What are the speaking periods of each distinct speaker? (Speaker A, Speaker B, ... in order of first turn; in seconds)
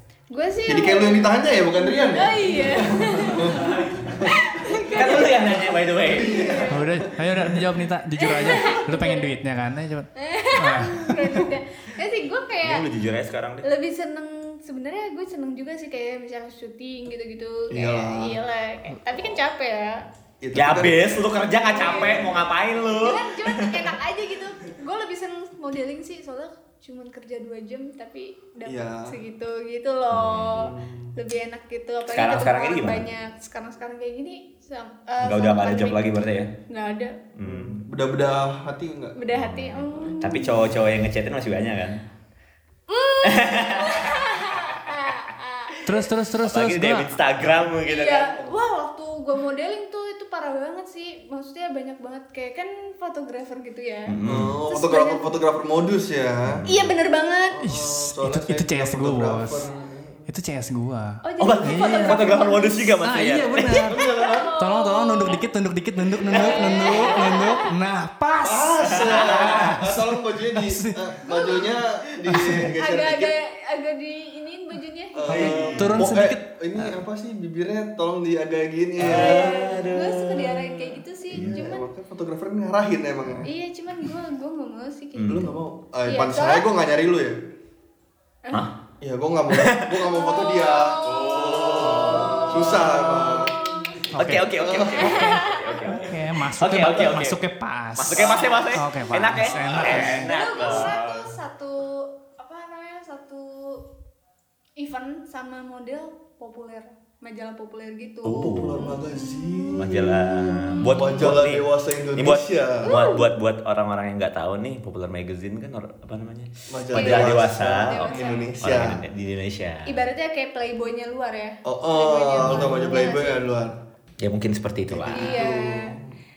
Speaker A: 0.3-6.8, 8.2-9.3, 10.2-12.9, 13.6-20.0, 21.6-36.0, 36.7-37.2, 39.2-40.7, 42.9-46.0, 47.8-54.2, 54.7-55.2, 56.7-57.7, 61.2-62.9, 64.0-65.4, 66.3-67.7, 71.3-71.8, 72.5-75.5, 79.0-81.8, 83.4-85.5, 86.1-86.7, 90.1-94.0, 94.9-95.9, 98.2-98.5, 99.8-103.8, 104.8-109.9, 110.7-111.3, 112.8-113.3, 116.9-118.5, 119.8-123.4, 125.1-125.9
Speaker B: 0.6-5.4, 6.0-7.1, 17.7-18.4, 20.4-21.2, 21.8-22.3, 28.6-29.1, 30.5-31.1, 37.4-39.2, 54.2-56.7, 57.5-60.3, 63.9-64.5, 68.4-73.3, 75.1-79.7, 81.3-83.5, 85.2-87.3, 89.0-93.6, 94.5-95.4, 98.2-98.5, 99.5-100.2, 108.3-112.9, 116.7-119.0, 121.6-123.7, 124.9-126.2
Speaker C: 3.4-4.2, 4.8-6.6, 12.6-13.7, 20.5-23.9, 30.1-30.7, 32.1-33.0, 35.2-36.5, 37.3-37.8, 39.3-42.0, 43.2-44.2, 46.4-48.3, 54.1-54.6, 56.5-56.9, 61.4-63.9, 66.3-67.4, 68.9-69.8, 75.3-76.1, 79.0-81.5, 85.2-85.5, 89.5-90.1, 91.0-93.5, 94.2-97.4, 98.0-101.3, 108.2-109.0, 109.8-111.7, 112.2-119.9, 124.2-125.4
Speaker D: 6.7-11.4, 45.8-47.2, 57.7-59.6, 60.3-62.2, 63.0-64.0, 64.6-71.1, 72.3-72.6, 75.3-76.5, 94.1-94.5, 95.9-100.3